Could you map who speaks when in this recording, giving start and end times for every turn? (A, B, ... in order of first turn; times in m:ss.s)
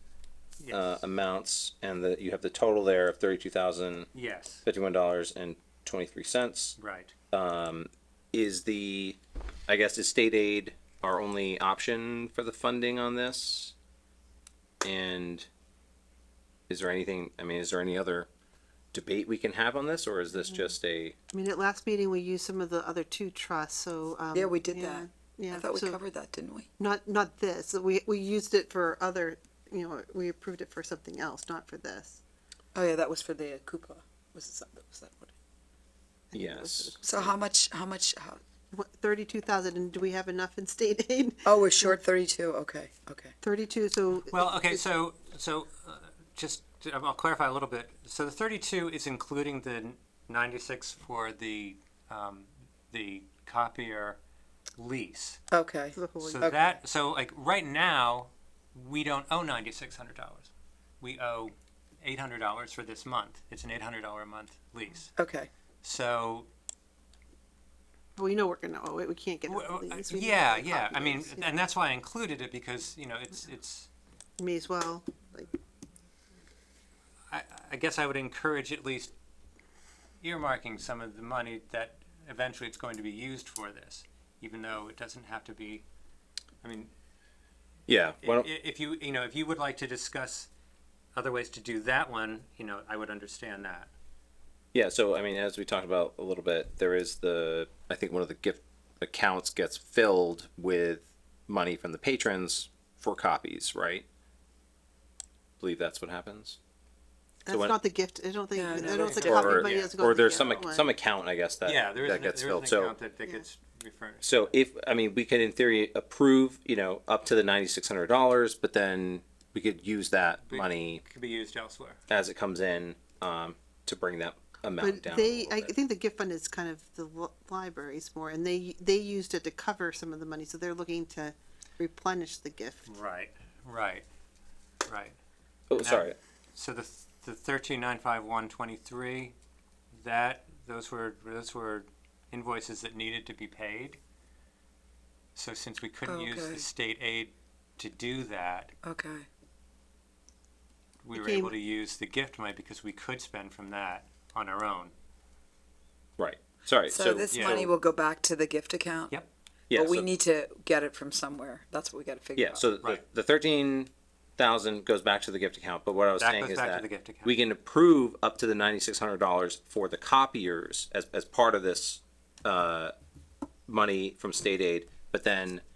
0:00.6-0:01.0 A
0:00.7-0:04.1 B
0:04.1-0:04.6 A
0:04.6-0:06.8 B
0:06.8-0:07.1 A
0:07.3-0:13.7 B
0:14.8-0:15.5 B
0:16.7-0:18.3 B
0:18.9-0:21.2 B
0:21.3-0:26.0 C
0:24.3-0:26.7 D
0:26.8-0:32.2 C
0:32.7-0:35.3 D
0:36.3-0:37.4 C
0:36.3-0:37.0 B
0:37.0-0:38.4 D
0:38.7-0:42.0 C
0:41.4-0:43.4 D
0:43.4-0:44.8 C
0:44.3-0:54.2 A
0:54.8-0:55.4 A
0:55.5-0:56.0 D
0:55.9-0:56.7 C
0:56.2-1:05.1 A
1:05.2-1:05.5 D
1:05.8-1:06.5 A
1:08.2-1:11.5 C
1:09.5-1:13.9 A
1:14.4-1:15.5 C
1:17.3-1:19.1 A
1:20.2-1:25.8 A
1:26.6-1:26.9 A
1:27.9-1:28.5 B
1:28.2-1:30.5 A
1:31.1-1:33.9 A
1:34.7-1:44.0 B
1:45.6-1:46.6 B
1:47.4-1:50.9 C
1:47.5-1:47.8 B
1:48.5-1:49.8 D
1:48.7-1:49.9 A
1:49.2-1:53.0 B
1:51.6-1:54.5 A
1:54.2-2:01.0 B
2:00.5-2:02.0 A
2:02.1-2:05.7 B
2:04.8-2:12.9 C
2:12.8-2:14.0 A
2:14.9-2:15.2 A
2:15.7-2:16.2 B
2:15.7-2:19.3 A
2:19.9-2:24.0 A
2:25.3-2:28.7 A
2:26.0-2:26.6 D
2:28.8-2:29.3 D
2:31.0-2:34.9 A
2:31.1-2:31.5 C
2:36.2-2:37.7 B
2:36.9-2:39.2 D
2:37.3-2:37.7 A
2:39.7-2:40.1 B
2:39.7-2:42.7 D
2:42.4-2:52.9 B
2:46.2-2:47.3 A
2:53.7-2:55.6 B